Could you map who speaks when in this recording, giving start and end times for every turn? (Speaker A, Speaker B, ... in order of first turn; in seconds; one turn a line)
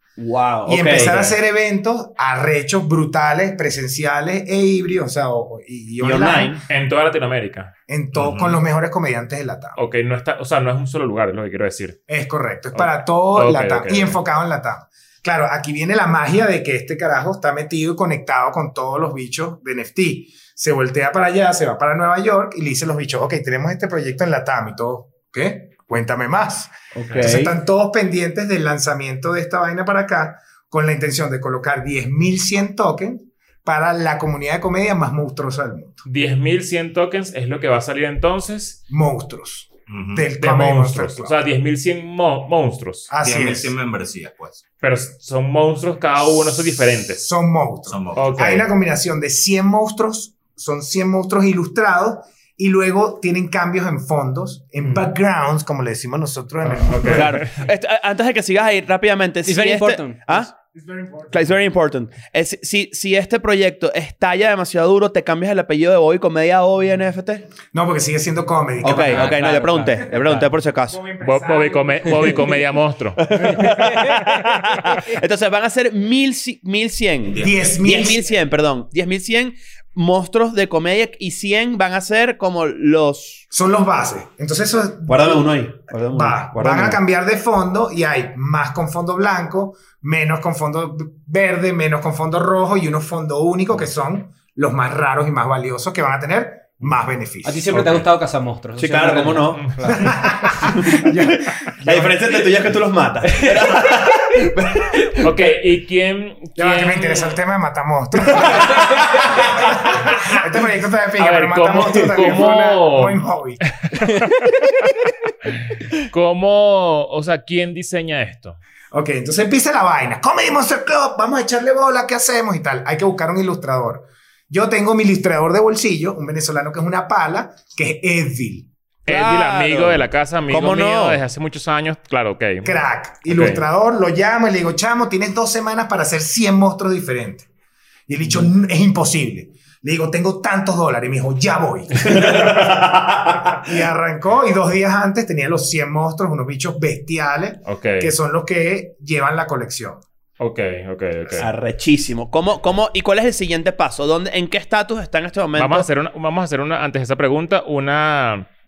Speaker A: 0.2-1.3
Speaker B: 0.7-6.6
Speaker C: 1.0-1.2
Speaker A: 6.0-6.6
Speaker C: 6.7-7.7
Speaker B: 7.9-9.8
Speaker D: 8.1-8.6
Speaker C: 9.8-12.0
Speaker B: 12.1-36.0
Speaker C: 12.7-14.2
Speaker A: 26.9-27.5
Speaker C: 27.0-27.3
Speaker C: 36.0-38.8
Speaker B: 38.9-41.4
Speaker D: 39.9-40.3
Speaker C: 40.4-43.1
Speaker B: 43.1-43.7
Speaker D: 43.2-44.6
Speaker C: 44.8-47.3
Speaker B: 46.9-57.5
Speaker D: 47.9-48.4
Speaker C: 48.1-48.7
Speaker C: 54.8-55.1
Speaker C: 56.6-57.6
Speaker A: 57.0-60.5
Speaker E: 59.4-60.5
Speaker B: 60.6-61.5
Speaker A: 61.3-67.5
Speaker B: 67.7-69.3
Speaker A: 68.8-71.0
Speaker E: 69.1-70.5
Speaker B: 70.9-72.6
Speaker C: 71.2-73.2
Speaker A: 73.2-83.4
Speaker E: 73.5-74.2
Speaker D: 77.3-77.7
Speaker B: 77.4-78.2
Speaker B: 83.5-97.7
Speaker A: 85.1-87.0
Speaker E: 97.4-100.2
Speaker C: 97.7-98.0
Speaker A: 98.8-99.8
Speaker C: 99.6-100.1
Speaker B: 99.9-102.6
Speaker A: 100.8-105.2
Speaker E: 103.3-103.5
Speaker C: 105.2-107.4
Speaker B: 106.6-113.7
Speaker C: 108.3-110.0
Speaker C: 111.2-113.2
Speaker C: 113.8-114.7
Speaker C: 115.7-118.6
Speaker B: 118.9-128.7
Speaker C: 129.0-133.7
Speaker A: 129.1-131.2
Speaker B: 132.6-137.5
Speaker B: 138.1-142.9
Speaker A: 142.1-143.5
Speaker B: 143.4-150.0
Speaker C: 147.7-148.1
Speaker C: 150.4-151.5
Speaker A: 151.3-155.8
Speaker C: 155.6-158.5